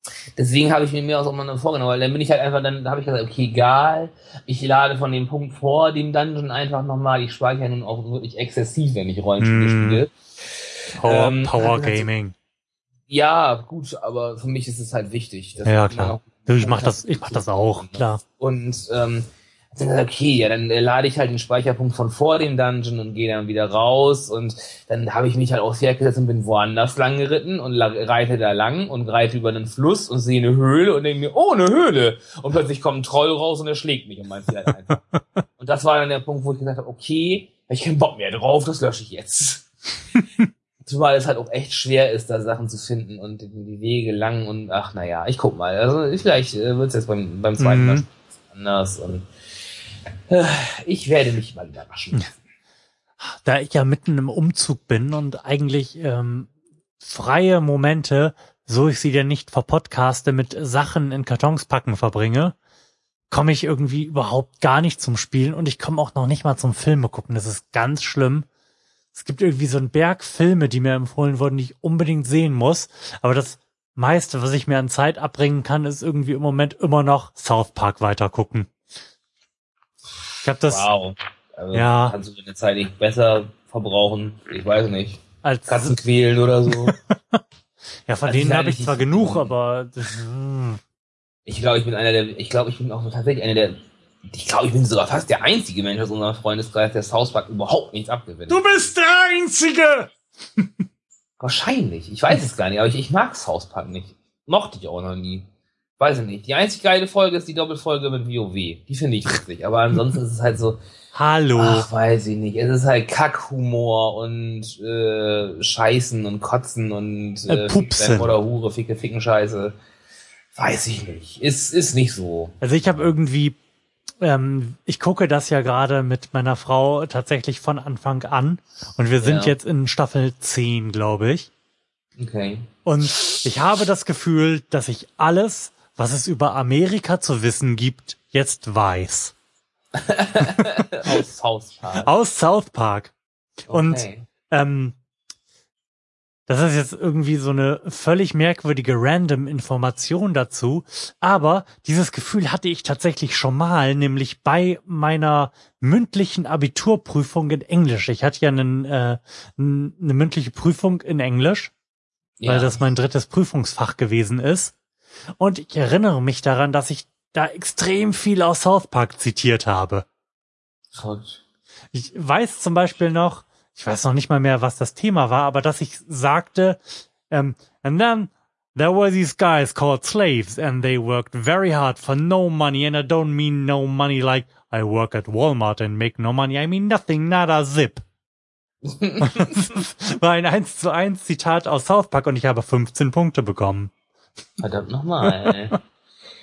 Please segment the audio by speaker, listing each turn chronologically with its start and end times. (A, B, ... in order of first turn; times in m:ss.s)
0:00.4-0:10.1 A
0:09.4-0:10.0 B
0:11.0-0:12.3 B
0:11.0-0:12.1 A
0:13.1-0:35.0 A
0:15.6-0:18.2 B
0:35.6-0:39.7 A
0:40.8-0:49.3 A
0:47.6-0:48.0 B
0:50.3-0:52.4 A
0:53.2-0:56.5 B
0:57.0-1:02.6 B
1:03.3-1:08.5 B
1:09.1-1:18.7 B
1:20.4-1:20.9 B
1:20.6-1:27.0 A
1:21.7-1:22.2 B
1:25.4-1:26.0 B
1:26.7-1:27.4 B
1:28.1-1:30.8 B
1:28.2-1:29.5 A
1:31.5-1:38.6 A
1:38.5-1:40.1 B
1:41.4-1:45.5 A
1:46.0-1:50.8 A
1:51.1-1:51.8 B
1:51.6-1:59.7 A
1:57.5-1:58.3 B
2:00.5-2:02.6 A
2:02.6-2:03.6 B
2:04.2-2:11.5 B
2:09.2-2:09.5 A
2:12.2-2:12.7 A
2:12.8-2:19.3 B
2:19.9-2:22.1 A
2:22.0-2:23.1 B
2:23.7-2:24.3 A
2:23.7-2:25.0 B
2:26.5-2:41.7 B
2:42.4-2:42.8 A
2:42.5-2:44.7 B
2:45.4-2:50.0 B
2:51.0-2:51.4 A
2:51.9-3:08.0 B
3:08.8-3:09.6 A
3:09.2-3:13.9 B
3:14.6-3:15.8 A
3:15.2-3:15.8 B